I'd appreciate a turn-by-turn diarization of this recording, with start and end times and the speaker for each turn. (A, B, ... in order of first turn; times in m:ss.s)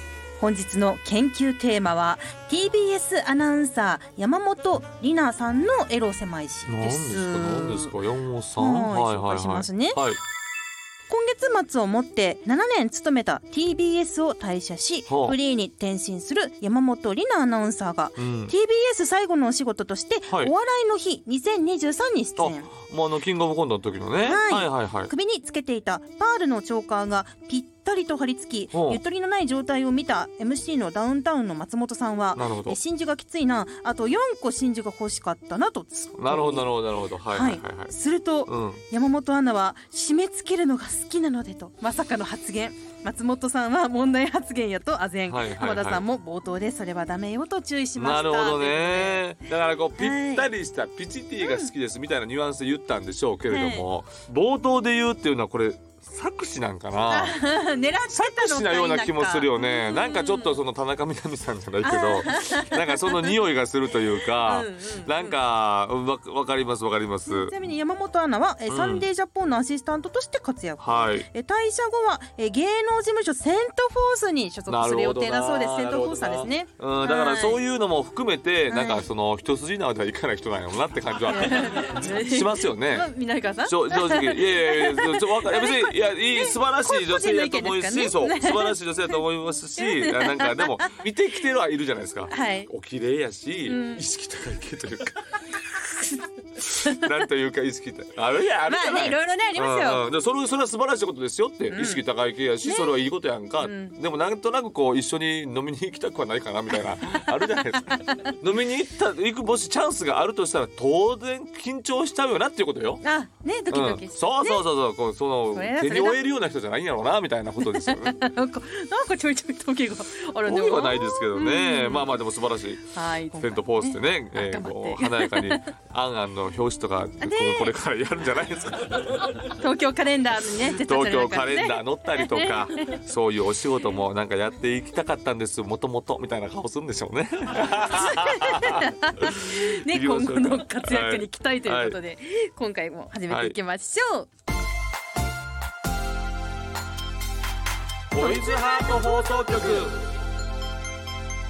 0:00.4-0:07.9 A
0:06.7-0:10.2 B
0:08.6-0:10.0 A
0:11.1-0:22.7 A
0:15.1-0:15.4 B
0:18.2-0:18.5 B
0:22.4-0:25.1 B
0:24.2-0:36.7 A
0:28.7-0:29.0 B
0:32.3-0:32.8 B
0:36.2-0:37.9 B
0:37.3-0:49.2 A
0:38.4-0:38.8 B
0:45.3-0:46.0 B
0:48.0-0:57.4 B
0:50.0-0:50.5 A
0:51.4-0:51.7 A
0:53.5-0:53.8 A
0:57.1-1:00.6 A
0:58.1-1:07.5 B
1:01.8-1:03.4 A
1:04.4-1:05.4 A
1:07.3-1:17.6 A
1:08.7-1:09.0 B
1:10.8-1:11.2 B
1:14.7-1:23.1 B
1:18.7-1:19.0 A
1:21.3-1:28.8 A
1:23.6-1:35.4 B
1:29.8-1:30.7 A
1:32.3-1:32.7 A
1:33.6-1:34.0 A
1:36.0-1:37.0 A
1:36.6-1:53.0 B
1:38.6-1:40.1 A
1:41.7-1:42.0 A
1:42.6-1:42.9 A
1:43.6-1:43.9 A
1:53.0-1:54.6 A
1:53.7-1:58.1 B
1:55.5-1:56.2 A
1:57.7-2:02.1 A
2:00.4-2:09.4 B
2:02.9-2:05.7 A
2:07.2-2:07.7 A
2:09.6-2:13.0 A
2:10.8-2:22.0 B
2:17.9-2:24.3 A
2:23.3-2:23.6 B
2:28.1-2:30.1 B
2:28.2-2:29.8 A